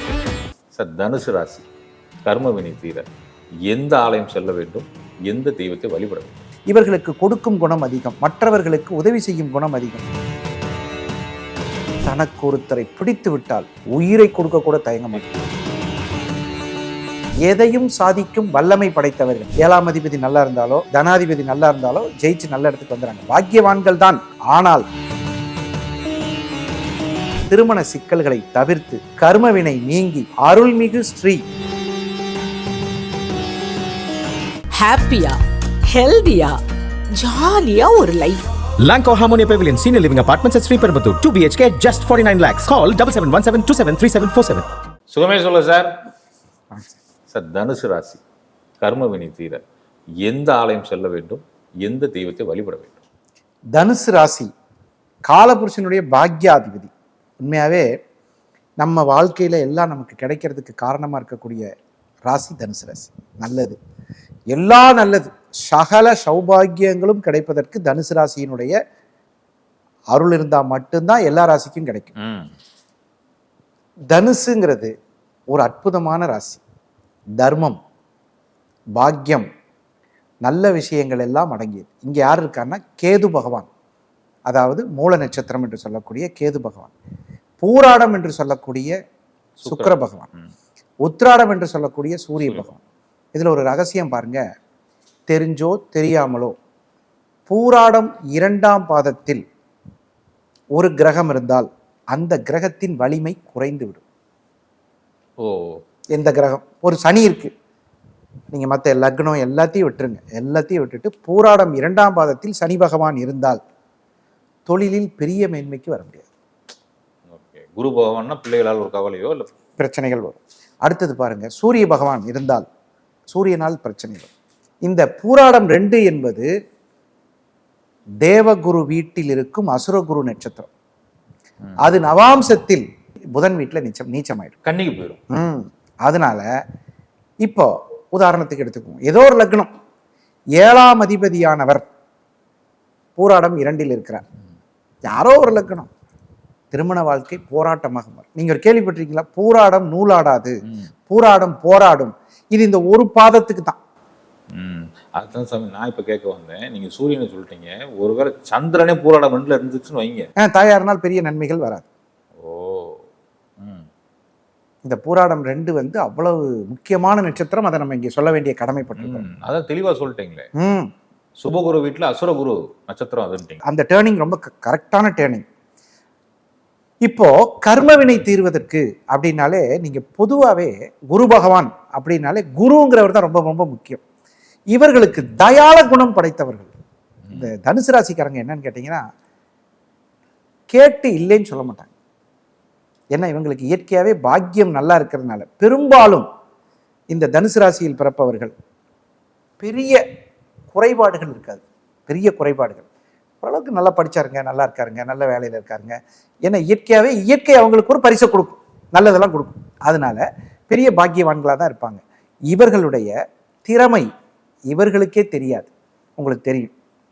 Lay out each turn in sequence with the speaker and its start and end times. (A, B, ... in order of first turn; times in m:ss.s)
0:00.7-0:01.6 A
0:02.2-0:03.0 A
0:03.7-0:06.4 A
0:06.7-0:10.0 B
0:12.0-0:15.3 B
0:17.4-0:24.8 B
0:27.5-0:31.4 B
0:34.7-0:36.6 C
0:37.1-0:38.5 C
0:38.8-0:44.7 D
0:45.1-0:45.9 A
0:47.3-0:48.2 A
0:48.8-0:49.6 A
0:50.2-0:53.0 A
0:53.8-0:54.5 B
0:55.3-0:56.9 B
0:57.4-0:57.8 B
0:58.8-1:01.6 B
1:02.2-1:03.7 B
1:04.5-1:08.7 B
1:10.1-1:12.1 B
1:12.2-1:12.5 A
1:14.1-1:14.9 B
1:15.5-1:16.6 B
1:17.4-1:17.8 B
1:19.0-1:19.4 B
1:20.4-1:23.7 B
1:24.5-1:26.9 B
1:27.6-1:28.9 B
1:29.6-1:30.5 A
1:29.6-1:30.3 B
1:31.0-1:32.8 B
1:33.3-1:34.4 B
1:35.3-1:36.6 B
1:37.5-1:39.4 B
1:40.7-1:44.0 B
1:45.4-1:45.8 A
1:46.1-1:47.5 B
1:48.5-1:53.6 B
1:54.6-1:56.3 B
1:57.3-1:59.5 A
1:59.8-2:02.6 B
2:03.3-2:04.3 B
2:04.8-2:06.5 B
2:08.2-2:10.7 B
2:11.8-2:14.5 B
2:14.6-2:15.2 A
2:15.3-2:16.5 B
2:17.4-2:19.7 B
2:20.6-2:21.8 B
2:23.2-2:24.2 B
2:25.0-2:25.9 B
2:26.7-2:30.6 B
2:31.1-2:33.8 B
2:34.5-2:40.3 A
2:40.4-2:41.8 B
2:42.4-2:43.0 A
2:43.6-2:43.8 A
2:44.8-2:49.3 B
2:49.0-2:50.5 A
2:50.6-2:50.9 B
2:51.4-2:53.6 A
2:53.6-2:55.4 B
2:57.0-3:04.0 B
3:04.7-3:06.7 B
3:07.3-3:09.0 B
3:10.7-3:11.9 B
3:13.1-3:16.3 B
3:17.1-3:18.5 B
3:19.6-3:20.0 B
3:20.7-3:22.8 B
3:23.4-3:33.1 B
3:33.6-3:34.1 B
3:34.7-3:36.7 B